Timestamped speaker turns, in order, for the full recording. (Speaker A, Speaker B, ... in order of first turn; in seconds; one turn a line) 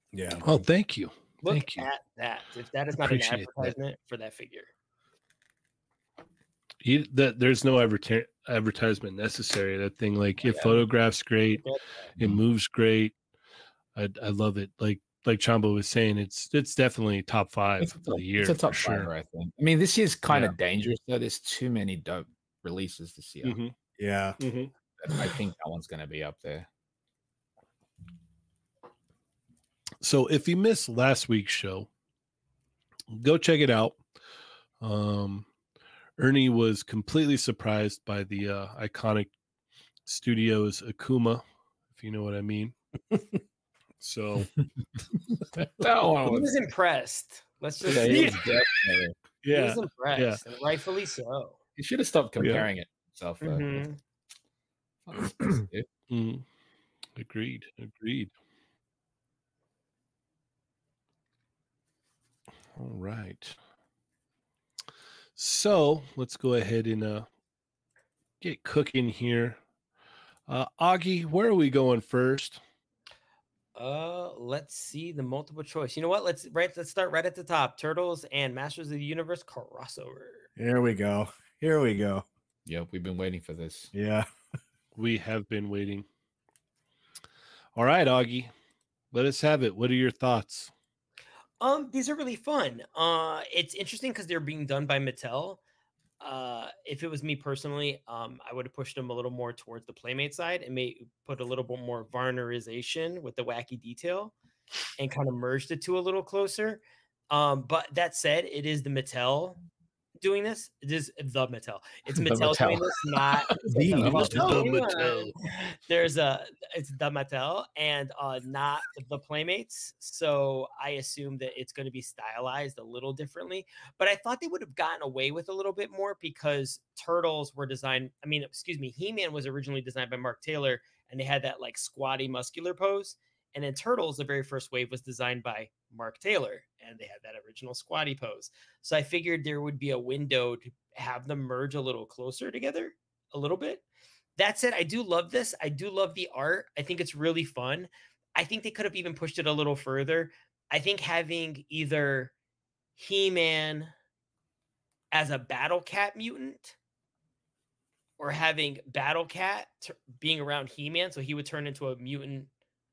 Speaker A: 0.1-0.6
Speaker B: 0.4-1.9
Speaker C: 1.4-4.7
Speaker B: 3.0-3.7
Speaker B: 6.8-11.6
Speaker C: 10.4-10.8
Speaker C: 11.5-11.8
Speaker B: 12.2-13.1
Speaker B: 14.0-19.1
Speaker D: 17.8-23.6
Speaker B: 20.3-20.6
Speaker B: 23.4-23.7
Speaker A: 24.0-24.4
Speaker B: 24.4-24.7
Speaker D: 25.0-26.7
Speaker B: 30.0-31.9
Speaker B: 33.1-34.0
Speaker B: 34.8-35.5
Speaker B: 36.2-39.3
Speaker B: 40.1-41.4
Speaker B: 42.0-42.7
Speaker B: 44.0-44.5
Speaker D: 45.3-46.5
Speaker C: 46.2-48.4
Speaker D: 47.8-49.2
Speaker B: 47.9-48.5
Speaker B: 49.4-50.4
Speaker C: 49.5-51.6
Speaker D: 51.8-53.9
Speaker B: 52.4-52.7
Speaker C: 53.4-54.0
Speaker D: 55.1-55.9
Speaker B: 56.1-56.4
Speaker B: 57.2-58.3
Speaker B: 62.8-63.6
Speaker B: 65.4-67.3
Speaker B: 68.4-69.6
Speaker B: 70.5-72.6
Speaker C: 73.8-80.5
Speaker A: 80.6-82.2
Speaker D: 82.7-83.9
Speaker A: 83.9-84.3
Speaker B: 85.0-86.1
Speaker B: 87.8-88.5
Speaker B: 89.1-90.7
Speaker C: 91.6-95.6
Speaker C: 96.2-104.3
Speaker C: 105.0-109.6
Speaker C: 110.2-143.8
Speaker D: 112.1-114.4
Speaker A: 113.7-114.7
Speaker B: 114.0-115.3
Speaker C: 144.4-152.3
Speaker C: 153.0-153.9
Speaker C: 155.1-156.8
Speaker C: 158.2-162.5